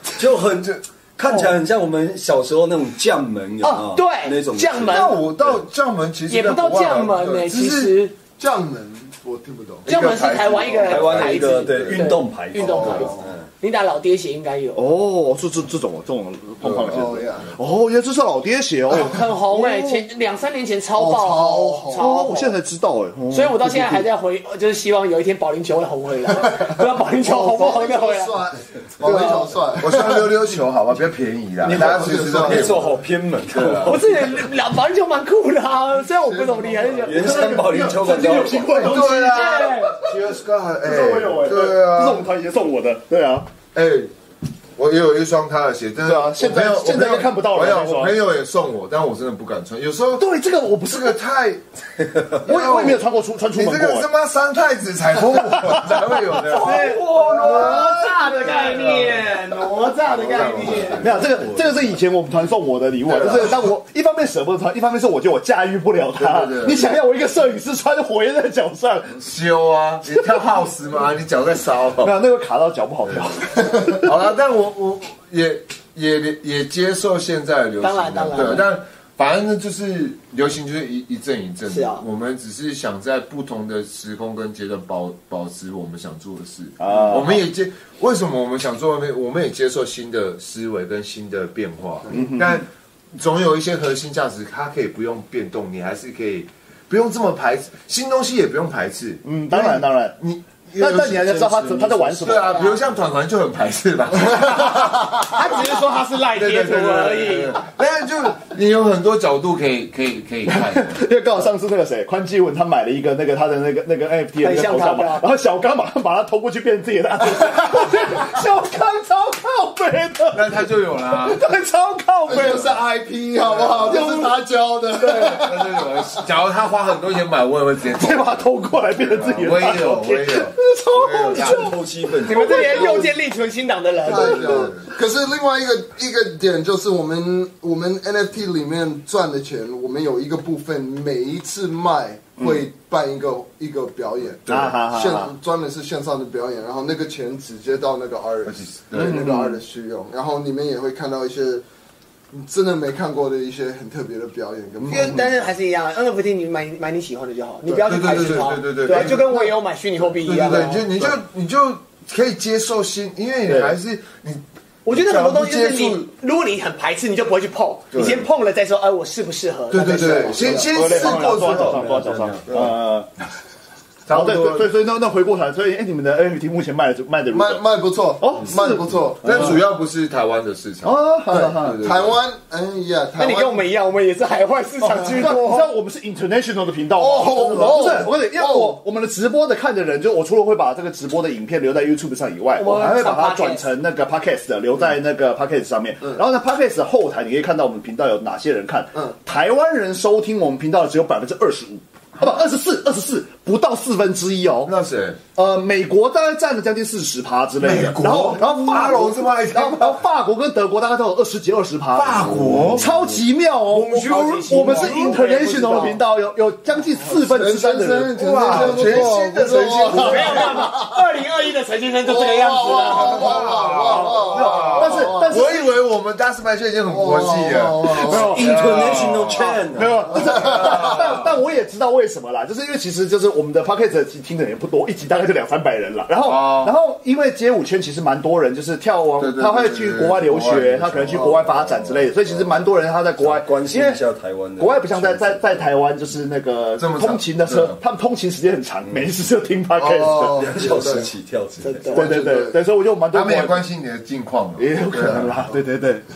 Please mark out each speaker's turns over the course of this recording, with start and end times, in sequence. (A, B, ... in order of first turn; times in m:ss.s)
0:00.2-0:05.6 A
0:03.6-0:05.2 B
0:04.9-0:08.0 C
0:06.3-0:08.1 B
0:08.4-0:09.9 D
0:09.8-0:12.1 C
0:09.8-0:14.8 B
0:10.8-0:13.4 A
0:12.6-0:13.3 D
0:14.7-0:20.1 E
0:16.6-0:17.0 C
0:16.8-0:17.5 D
0:18.9-0:22.6 B
0:20.9-0:22.1 D
0:21.9-0:24.0 E
0:23.3-0:28.4 B
0:27.2-0:30.3 D
0:29.0-0:29.5 B
0:29.2-0:32.9 C
0:31.6-0:34.3 A
0:31.7-0:32.8 D
0:33.5-0:34.0 C
0:33.8-0:37.2 B
0:36.3-0:37.0 D
0:37.1-0:38.9 A
0:37.1-0:40.2 E
0:38.7-0:42.3 C
0:38.9-0:39.9 B
0:40.8-0:43.5 E
0:43.7-0:44.1 C
0:44.8-0:50.3 C
0:46.0-0:48.1 E
0:50.2-0:51.2 E
0:50.9-0:57.0 C
0:52.4-0:54.1 E
0:55.3-0:56.1 E
0:56.5-1:01.1 B
0:56.5-0:57.9 A
0:57.4-0:58.9 E
0:57.6-0:57.8 C
0:58.7-0:59.2 C
1:00.0-1:01.4 C
1:01.0-1:09.2 E
1:01.2-1:01.8 A
1:03.1-1:03.6 C
1:06.2-1:06.9 C
1:09.2-1:12.1 C
1:12.0-1:14.1 E
1:13.9-1:45.7 C
1:17.8-1:18.7 B
1:21.6-1:22.0 B
1:26.8-1:27.4 E
1:32.1-1:32.6 E
1:39.2-1:40.2 E
1:40.8-1:42.7 E
1:45.2-1:47.6 B
1:46.3-1:51.0 C
1:50.5-2:02.8 E
1:54.4-1:55.2 B
2:00.3-2:01.4 C
2:02.3-2:06.2 D
2:02.3-2:02.7 C
2:03.4-2:04.2 C
2:03.8-2:04.3 E
2:05.0-2:11.7 C
2:07.9-2:11.7 E
2:11.4-2:13.1 A
2:12.2-2:14.6 B
2:14.0-2:31.6 D
2:14.1-2:14.9 C
2:24.4-2:24.8 C
2:24.5-2:25.3 E
2:28.4-2:29.3 C
2:28.9-2:29.6 E
2:32.3-2:35.2 D
2:34.9-2:40.8 B
2:34.9-2:35.2 C
2:37.8-2:39.5 C
2:40.2-2:46.1 C
2:43.4-2:43.8 E
2:44.8-2:50.6 B
2:47.9-2:48.2 C
2:49.7-2:52.7 C
2:49.8-2:50.9 D
2:50.7-2:53.1 E
2:51.0-2:52.4 A
2:54.0-2:54.7 C
2:54.1-2:57.6 E
2:57.3-2:59.5 D
2:58.2-2:59.6 E
2:59.2-3:02.2 C
3:00.8-3:01.8 E
3:01.3-3:03.6 D
3:03.2-3:05.7 B
3:05.1-3:24.7 E
3:07.0-3:08.8 D
3:12.6-3:13.7 B
3:24.6-3:25.2 C
3:25.3-3:39.1 E
3:27.6-3:30.0 C
3:31.9-3:32.9 C
3:33.7-3:36.0 B
3:37.1-3:40.9 D
3:38.1-3:40.6 C
3:39.9-3:43.7 B
3:42.0-3:45.5 D
3:42.8-3:51.4 C
3:43.9-3:45.6 E
3:46.9-3:48.5 D
3:48.0-3:48.7 E
3:48.1-3:50.1 A
3:49.7-4:04.0 E
3:50.2-3:50.8 D
3:56.2-3:56.7 C
3:59.2-4:02.1 C
4:01.1-4:01.4 D
4:03.2-4:05.7 A
4:04.6-4:10.5 E
4:06.8-4:07.8 C
4:09.8-4:11.1 D
4:10.3-4:11.9 A
4:11.6-4:12.1 B
4:11.9-4:12.6 D
4:11.9-4:13.6 E
4:13.1-4:15.4 C
4:14.6-4:16.1 E